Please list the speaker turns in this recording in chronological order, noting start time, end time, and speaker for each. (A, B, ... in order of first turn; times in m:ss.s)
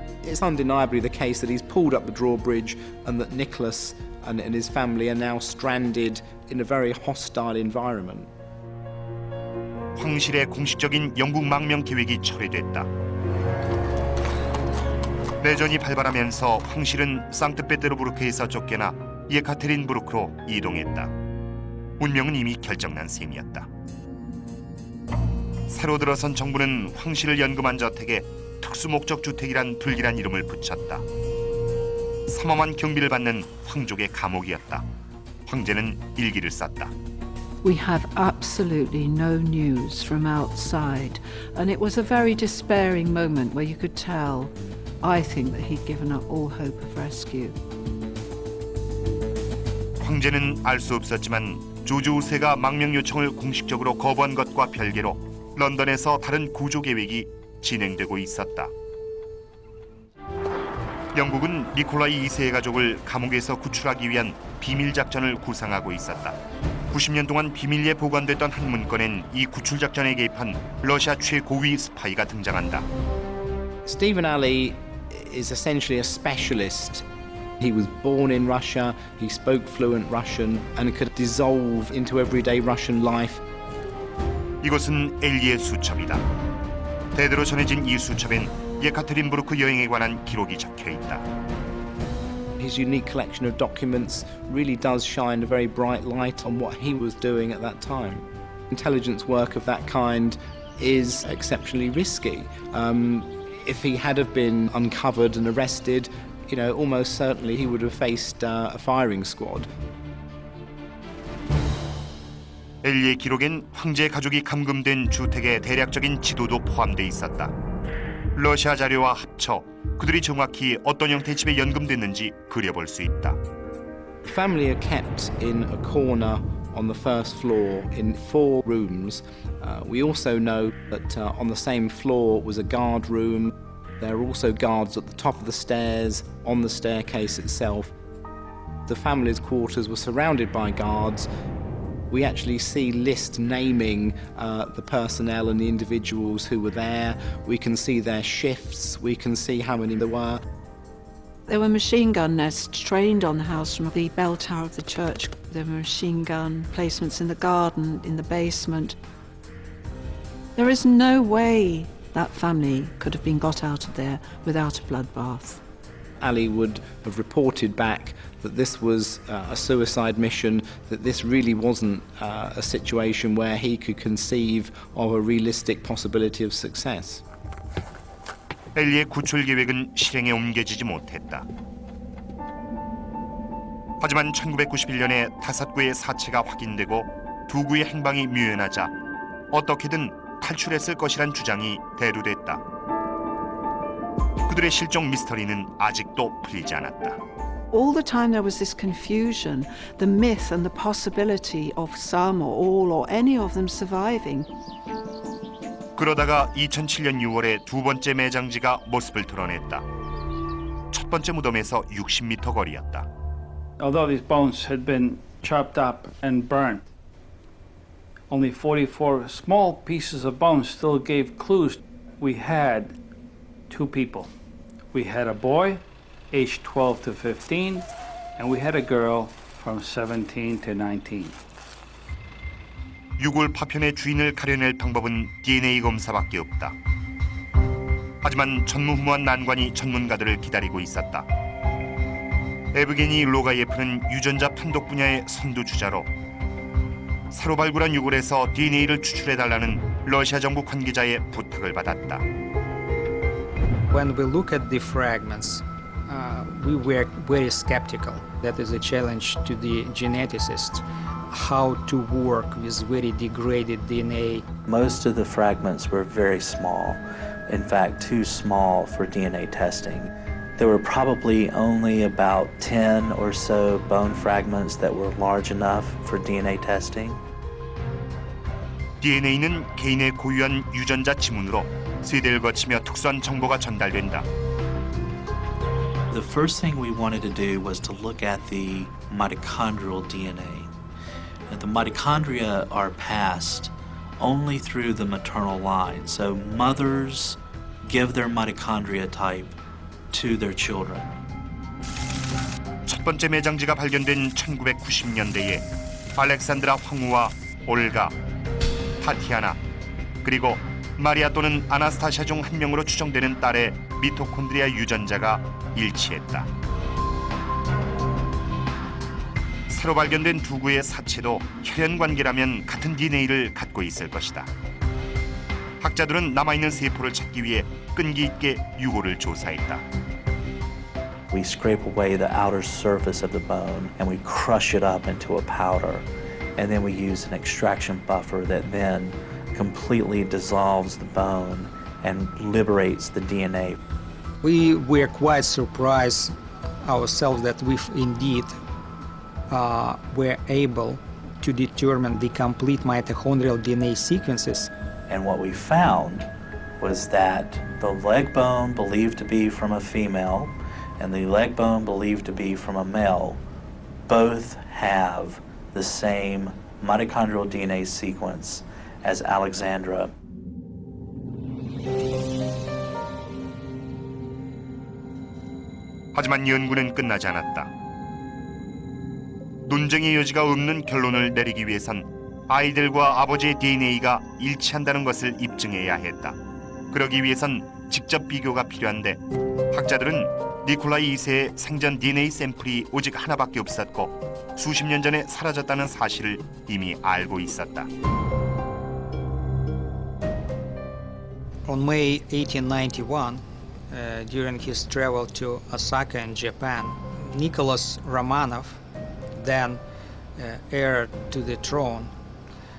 0:00.2-0:08.3 A
0:10.0-0:12.9 B
0:15.4-0:21.1 B
0:22.0-0:23.7 B
0:25.7-0:31.0 B
0:32.3-0:34.9 B
0:35.5-0:36.9 B
0:37.6-0:47.6 C
0:50.0-0:58.7 B
1:01.1-1:06.4 B
1:06.9-1:12.9 B
1:13.8-1:17.1 A
1:17.6-1:23.4 A
1:24.6-1:26.2 B
1:27.2-1:31.2 B
1:32.6-1:49.7 A
1:52.8-1:57.5 B
1:58.4-2:03.4 B
2:04.2-2:17.9 A
2:18.9-2:21.3 A
2:22.1-2:30.4 A
2:31.5-2:39.0 C
2:40.6-2:45.6 C
2:46.2-2:57.2 A
2:58.8-3:01.5 B
3:04.0-3:08.9 B
3:09.5-3:12.6 B
3:14.5-3:17.2 B
3:17.7-3:24.5 C
3:26.0-3:29.8 B
3:30.9-3:33.1 B
3:33.8-3:36.9 D
3:38.3-3:43.0 D
3:43.7-3:44.3 D
3:44.9-3:51.4 D
3:53.2-3:56.8 B
3:58.2-4:01.3 B
4:02.7-4:06.1 B
4:07.3-4:12.2 B
4:13.9-4:24.5 E
4:24.7-4:37.2 F
4:39.0-4:44.3 B
4:46.1-4:50.7 F
4:51.5-4:59.6 F
5:00.1-5:01.1 F
5:02.9-5:05.7 B
5:06.2-5:08.1 B
5:09.0-5:09.6 B
5:10.2-5:16.5 B
5:19.7-5:24.5 B
5:25.8-5:29.8 B
5:31.3-5:43.8 F
5:44.4-5:48.6 E
5:49.5-5:54.7 E
5:55.1-6:03.4 F
6:04.1-6:10.1 F
6:16.1-6:17.7 B
6:19.7-6:26.4 B
6:26.9-6:29.2 B
6:29.7-6:37.9 B
6:41.7-6:48.8 E
6:49.4-6:49.8 E
6:50.4-6:52.1 E